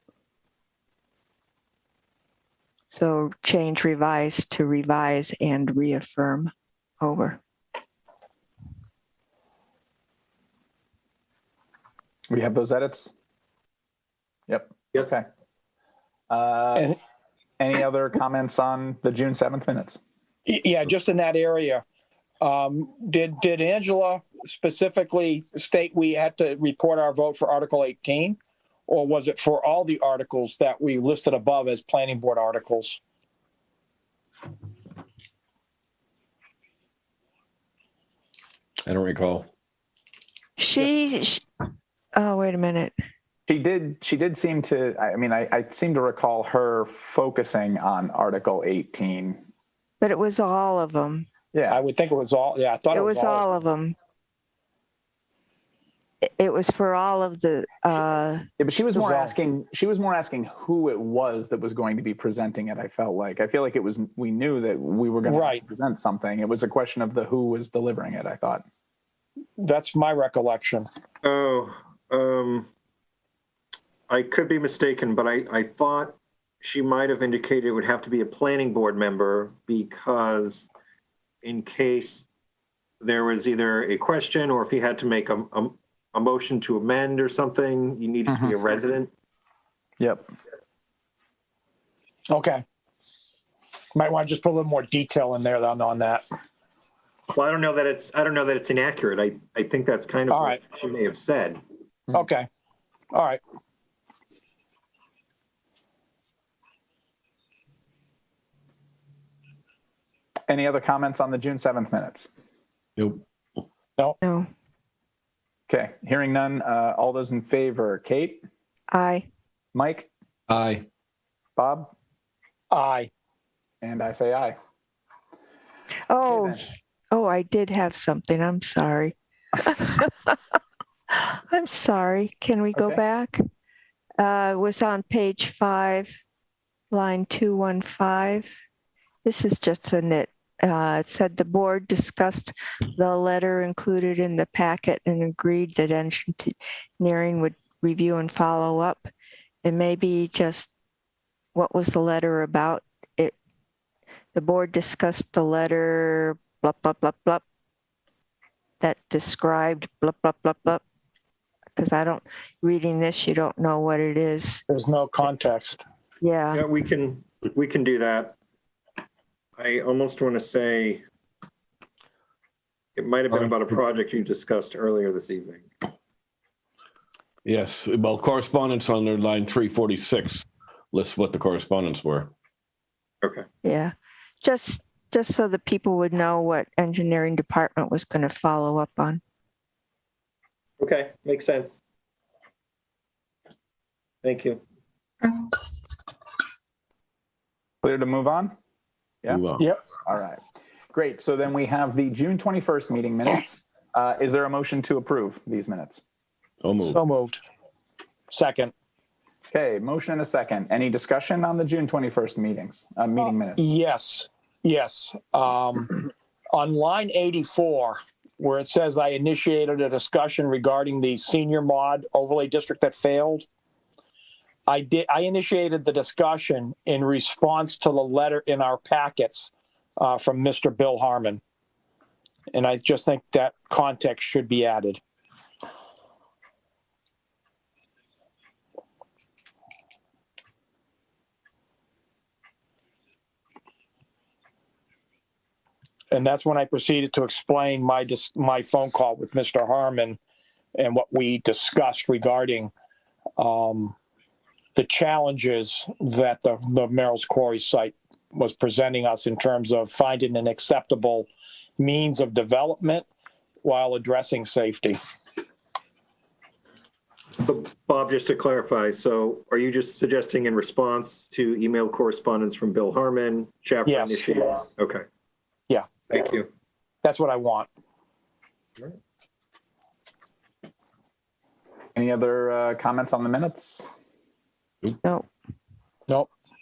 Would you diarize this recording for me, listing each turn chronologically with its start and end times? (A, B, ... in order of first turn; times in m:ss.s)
0:02.9-0:07.4 A
0:12.3-0:13.1 B
0:14.5-0:15.2 B
0:16.3-0:17.0 B
0:17.6-0:20.0 B
0:20.5-0:21.8 C
0:22.4-0:33.0 C
0:38.8-0:39.5 D
0:40.6-0:41.4 A
0:42.2-0:42.9 A
0:43.5-0:49.4 B
0:50.0-0:51.3 A
0:51.5-0:51.8 B
0:51.7-0:53.5 C
0:52.9-0:54.0 A
0:56.2-0:58.4 A
0:58.6-1:08.6 B
0:59.0-0:59.3 C
1:05.3-1:05.6 C
1:09.6-1:10.9 C
1:11.2-1:12.7 E
1:14.1-1:20.7 E
1:21.4-1:22.3 E
1:23.0-1:29.1 E
1:28.3-1:28.6 B
1:30.0-1:30.4 B
1:32.3-1:32.6 C
1:34.0-1:36.3 C
1:37.3-1:41.6 E
1:40.3-1:40.6 C
1:42.1-1:42.5 C
1:43.1-1:43.4 C
1:50.5-1:52.3 B
1:53.0-1:53.2 D
1:54.2-1:54.5 A
1:55.7-1:58.4 B
1:58.9-1:59.3 A
1:59.7-2:00.1 B
2:00.5-2:00.9 D
2:01.6-2:01.9 B
2:02.7-2:03.1 C
2:03.8-2:04.6 B
2:06.1-2:10.4 A
2:06.3-2:06.6 B
2:11.1-2:13.4 A
2:14.2-2:16.2 A
2:16.9-2:18.5 A
2:19.2-2:29.1 A
2:29.6-2:30.7 A
2:31.6-2:33.4 A
2:34.3-2:37.4 A
2:38.8-2:40.8 A
2:41.8-2:44.6 A
2:44.7-2:45.8 C
2:46.2-2:46.6 A
2:46.5-2:48.4 E
2:49.6-2:51.0 E
2:53.0-2:55.6 E
2:57.4-3:02.3 D
3:03.6-3:09.2 A
3:10.8-3:11.8 E
3:14.2-3:14.6 E
3:17.8-3:18.6 B
3:19.3-3:19.7 D
3:20.0-3:20.4 B
3:20.9-3:26.0 B
3:26.6-3:27.0 D
3:26.8-3:27.4 C
3:28.3-3:28.7 C
3:29.5-3:33.6 B
3:33.6-3:43.5 C
3:44.7-3:51.4 C
3:52.5-3:55.0 C
4:06.1-4:10.2 C
4:10.8-4:12.7 C
4:13.4-4:14.0 C
4:14.8-4:23.1 C
4:23.6-4:25.0 C
4:27.4-4:35.0 E
4:33.8-4:34.3 C
4:35.7-4:36.0 C
4:36.0-4:36.5 E
4:37.0-4:37.7 C
4:42.0-4:43.9 B
4:45.0-4:45.3 A